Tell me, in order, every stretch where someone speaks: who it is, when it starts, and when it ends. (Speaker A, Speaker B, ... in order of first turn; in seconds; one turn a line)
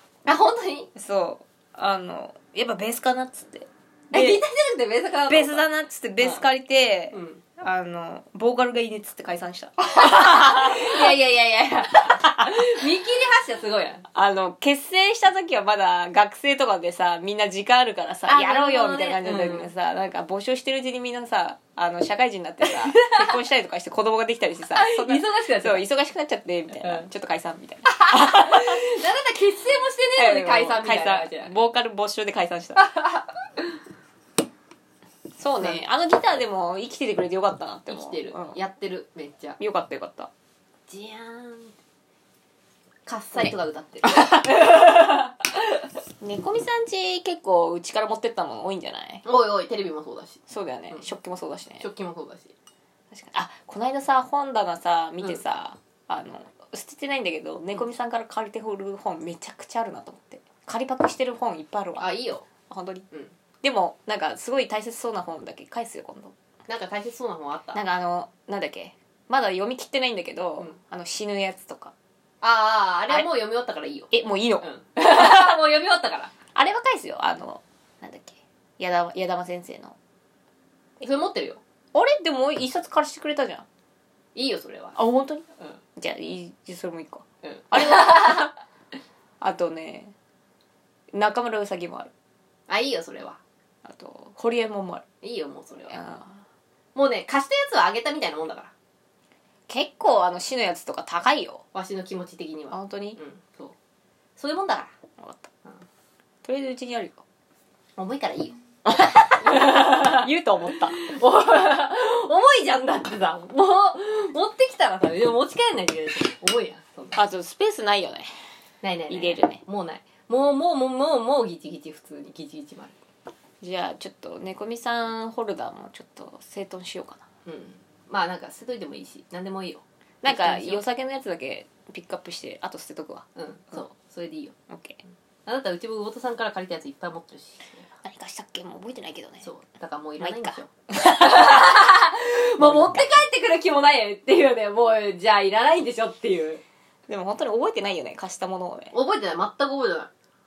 Speaker A: 0.2-0.9
Speaker B: 0.9-4.4
Speaker A: 4.1-5.7
Speaker B: 5.3-11.1
Speaker A: 7.1-7.4
Speaker A: 9.8-14.1
Speaker B: 12.1-12.8
Speaker B: 14.1-29.0
Speaker A: 18.3-19.7
Speaker A: 22.6-23.4
Speaker A: 24.7-25.9
Speaker A: 26.8-27.1
Speaker A: 27.9-31.5
Speaker B: 30.2-32.9
Speaker A: 32.8-33.8
Speaker B: 35.4-38.6
Speaker A: 37.9-39.6
Speaker B: 39.6-40.3
Speaker A: 40.9-41.7
Speaker A: 43.1-45.9
Speaker B: 44.1-44.4
Speaker B: 46.2-49.2
Speaker A: 49.2-51.1
Speaker B: 50.5-51.9
Speaker A: 51.8-52.5
Speaker B: 53.1-63.1
Speaker A: 62.0-62.5
Speaker B: 63.6-66.3
Speaker A: 66.7-67.8
Speaker B: 67.7-71.9
Speaker A: 72.4-74.1
Speaker B: 74.1-74.7
Speaker A: 74.6-76.3
Speaker B: 76.5-80.0
Speaker A: 81.0-81.6
Speaker B: 81.9-83.7
Speaker A: 84.3-85.0
Speaker B: 85.0-85.5
Speaker B: 86.0-88.6
Speaker A: 87.4-88.5
Speaker B: 89.4-90.1
Speaker B: 91.1-92.1
Speaker A: 92.7-93.4
Speaker B: 93.8-95.1
Speaker A: 95.2-95.9
Speaker B: 95.9-96.4
Speaker A: 97.0-98.7
Speaker B: 99.7-101.6
Speaker A: 101.7-103.8
Speaker B: 102.7-103.2
Speaker A: 104.4-104.9
Speaker B: 105.2-105.5
Speaker B: 106.4-107.2
Speaker A: 108.0-108.6
Speaker B: 108.8-111.0
Speaker A: 109.4-117.2
Speaker B: 117.2-118.3
Speaker A: 118.8-123.0
Speaker B: 119.1-119.6
Speaker B: 123.6-127.3
Speaker A: 127.5-130.8
Speaker B: 130.2-133.3
Speaker A: 133.4-134.6
Speaker B: 134.7-135.0
Speaker A: 135.5-137.9
Speaker B: 138.0-139.5
Speaker A: 139.4-146.6
Speaker B: 140.2-141.8
Speaker B: 142.6-143.1
Speaker B: 147.1-148.9
Speaker A: 148.9-150.1